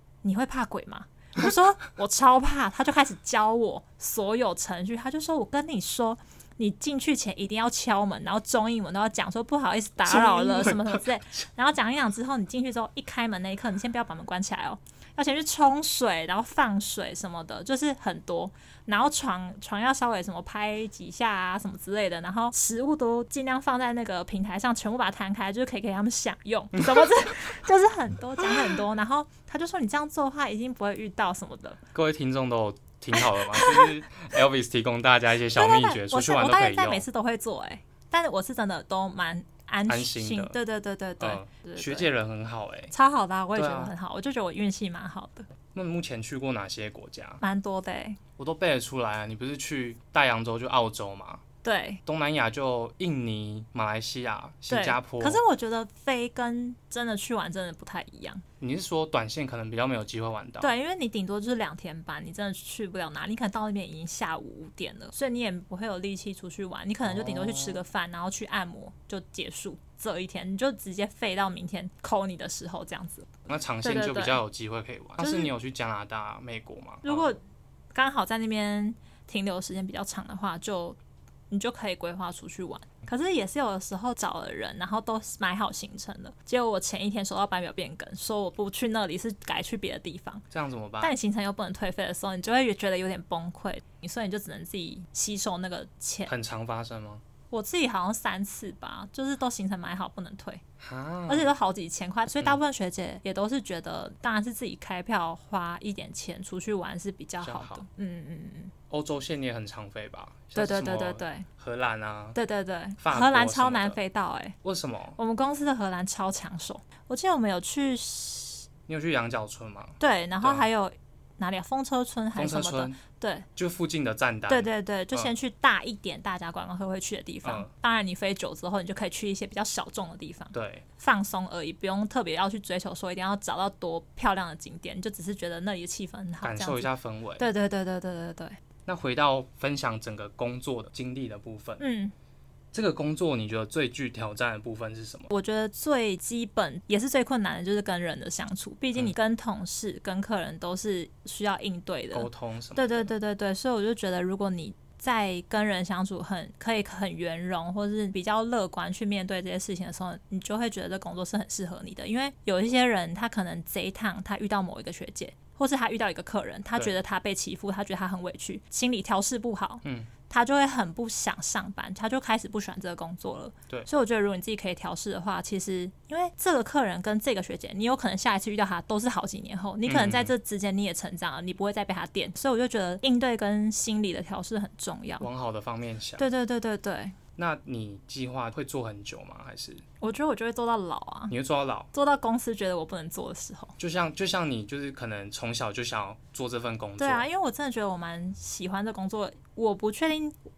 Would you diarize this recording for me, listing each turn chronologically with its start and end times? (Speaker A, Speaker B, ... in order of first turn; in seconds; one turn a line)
Speaker A: 0.2-31.8
Speaker B: 10.0-11.3
Speaker B: 26.8-27.3
Speaker B: 28.4-28.7
Speaker B: 31.9-37.0
Speaker A: 33.1-33.9
Speaker A: 35.5-42.1
Speaker B: 39.9-40.6
Speaker B: 41.2-42.9
Speaker A: 42.9-45.5
Speaker B: 43.5-43.9
Speaker B: 45.7-47.4
Speaker A: 47.4-48.2
Speaker B: 48.4-51.4
Speaker A: 51.6-52.0
Speaker B: 52.0-55.4
Speaker A: 54.7-58.4
Speaker B: 58.6-60.7
Speaker A: 60.6-74.4
Speaker B: 67.0-67.8
Speaker B: 73.5-77.4
Speaker A: 75.2-75.5
Speaker A: 77.0-77.4
Speaker A: 77.9-81.0
Speaker A: 81.5-90.4
Speaker B: 90.5-91.1
Speaker A: 91.0-96.3
Speaker B: 96.3-97.2
Speaker A: 97.5-100.6
Speaker B: 100.8-101.5
Speaker A: 101.3-108.7
Speaker B: 107.4-107.8
Speaker B: 108.9-112.4
Speaker A: 110.5-111.5
Speaker A: 112.3-114.5
Speaker B: 113.0-114.0
Speaker B: 114.6-115.2
Speaker A: 115.2-118.7
Speaker B: 118.9-120.7
Speaker A: 120.0-123.5
Speaker B: 122.3-123.0
Speaker B: 123.5-125.3
Speaker A: 124.5-138.6
Speaker B: 127.4-127.7
Speaker B: 130.5-130.8
Speaker B: 136.4-137.5
Speaker B: 138.8-141.8
Speaker A: 141.8-142.1
Speaker B: 142.7-145.3
Speaker A: 145.3-185.3
Speaker B: 152.1-153.1
Speaker B: 169.8-170.1
Speaker B: 179.8-180.3
Speaker B: 185.2-186.3
Speaker A: 186.2-187.2
Speaker B: 187.4-189.8
Speaker A: 190.0-191.3
Speaker B: 191.3-191.9
Speaker A: 191.9-193.7
Speaker B: 193.8-197.3
Speaker A: 197.0-200.3